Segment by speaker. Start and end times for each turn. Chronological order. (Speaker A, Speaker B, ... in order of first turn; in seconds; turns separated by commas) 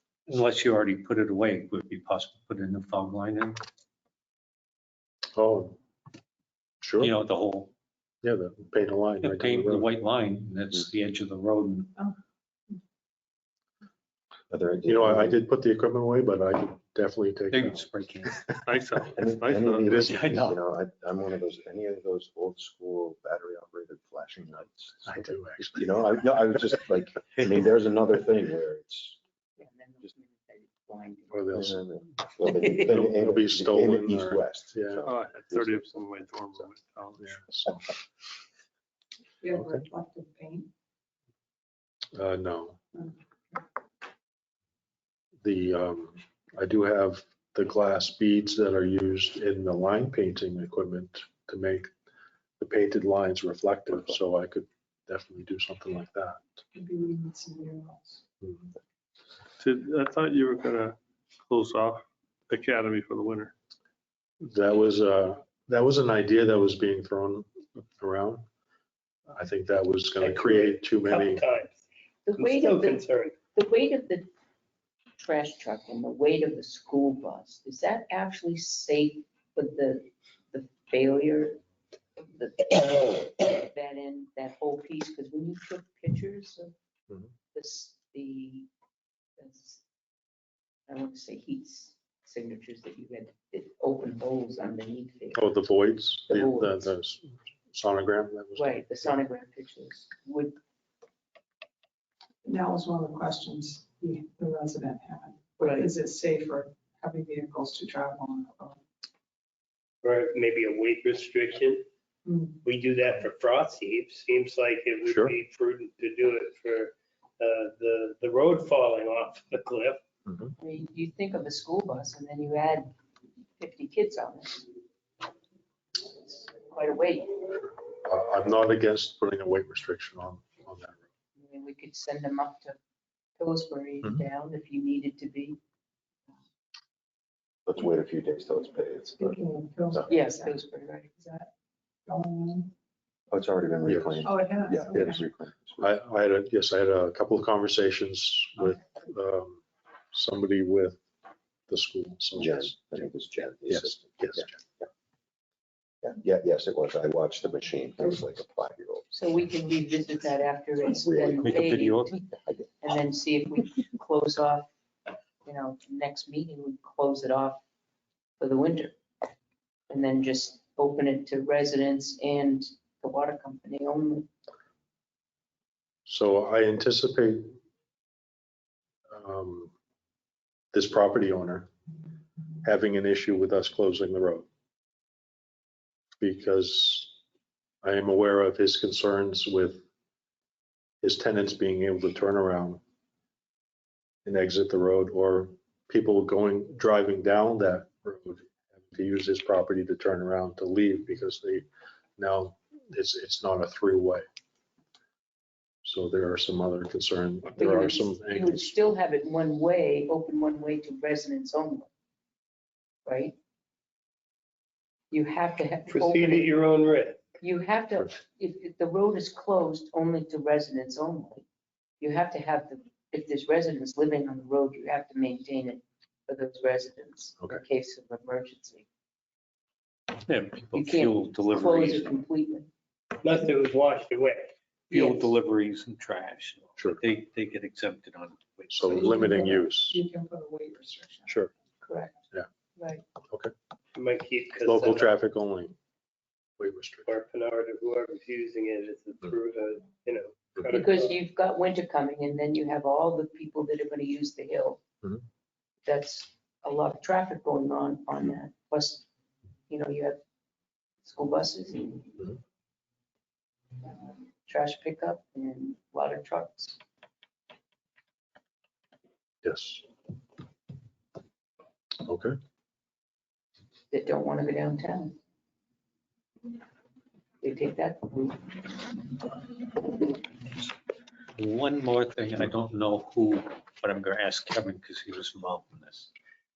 Speaker A: 0.3-3.6, Speaker B: 5.3-5.8, Speaker B: 6.8-7.1, Speaker A: 7.0-7.7, Speaker B: 8.2-9.9, Speaker A: 9.2-11.9, Speaker C: 14.5-15.4, Speaker B: 14.8-17.8, Speaker A: 17.5-18.4, Speaker D: 18.6-20.2, Speaker C: 19.1-29.2, Speaker A: 20.0-20.6, Speaker B: 25.0-25.8, Speaker E: 29.6-31.5, Speaker B: 31.3-31.9, Speaker C: 31.5-35.8, Speaker B: 32.7-35.0, Speaker D: 35.0-37.4, Speaker B: 37.2-37.9, Speaker F: 39.4-40.7, Speaker B: 42.1-42.8, Speaker F: 42.9-43.6, Speaker B: 45.4-51.9, Speaker B: 52.6-56.4, Speaker F: 56.7-58.2, Speaker B: 58.4-58.7, Speaker D: 59.6-63.5, Speaker B: 64.4-68.4, Speaker B: 69.3-71.5, Speaker G: 70.2-71.8, Speaker E: 72.2-74.3, Speaker G: 72.3-73.3, Speaker E: 75.2-81.6, Speaker E: 82.2-86.7, Speaker E: 87.5-88.7, Speaker E: 89.4-89.8, Speaker E: 90.9-95.4, Speaker B: 95.3-99.2, Speaker E: 96.3-96.9, Speaker E: 98.5-100.5, Speaker F: 102.4-108.8, Speaker E: 105.6-105.9, Speaker G: 110.0-111.8, Speaker F: 112.2-112.6, Speaker G: 112.6-120.0, Speaker B: 115.0-115.4, Speaker B: 120.3-120.5, Speaker E: 120.6-122.9, Speaker E: 123.6-124.7, Speaker E: 126.2-127.4, Speaker B: 128.0-131.0, Speaker E: 131.3-132.8, Speaker E: 133.4-135.6, Speaker C: 137.7-139.4, Speaker F: 139.2-140.7, Speaker E: 140.1-141.1, Speaker F: 141.2-141.5, Speaker F: 142.1-142.7, Speaker C: 143.3-145.8, Speaker B: 143.8-144.2, Speaker F: 144.2-145.2, Speaker B: 145.8-151.0, Speaker B: 151.7-152.7, Speaker C: 152.3-154.5, Speaker B: 153.7-154.5, Speaker C: 156.0-159.1, Speaker E: 159.1-162.2, Speaker C: 160.8-161.8, Speaker A: 161.4-162.2, Speaker E: 162.8-164.7, Speaker E: 165.4-167.6, Speaker E: 168.4-168.9, Speaker E: 169.9-174.3, Speaker B: 176.1-177.6, Speaker B: 179.1-179.7, Speaker B: 180.7-181.7, Speaker B: 182.6-184.5, Speaker B: 186.2-187.2, Speaker B: 187.8-189.8, Speaker B: 191.0-192.8, Speaker B: 194.2-201.7, Speaker B: 202.2-204.2, Speaker B: 205.8-208.7, Speaker E: 207.5-211.9, Speaker E: 213.0-213.3, Speaker E: 215.1-216.5, Speaker G: 215.9-217.2, Speaker E: 217.4-221.4, Speaker E: 222.0-228.9, Speaker A: 230.2-232.1, Speaker E: 230.7-232.7, Speaker G: 233.2-234.5, Speaker A: 234.9-238.8, Speaker E: 234.9-235.3, Speaker B: 238.7-240.0, Speaker F: 238.8-241.4, Speaker E: 241.8-242.1, Speaker E: 242.8-243.0, Speaker G: 243.9-245.2, Speaker B: 244.6-245.7, Speaker B: 246.6-247.1, Speaker G: 247.0-251.2, Speaker E: 250.7-254.8, Speaker E: 255.8-259.1, Speaker E: 259.7-260.2, Speaker E: 261.0-262.3, Speaker E: 263.8-266.8, Speaker B: 269.4-269.8, Speaker B: 272.0-272.4, Speaker E: 273.9-275.1, Speaker E: 277.4-279.3, Speaker A: 281.4-286.1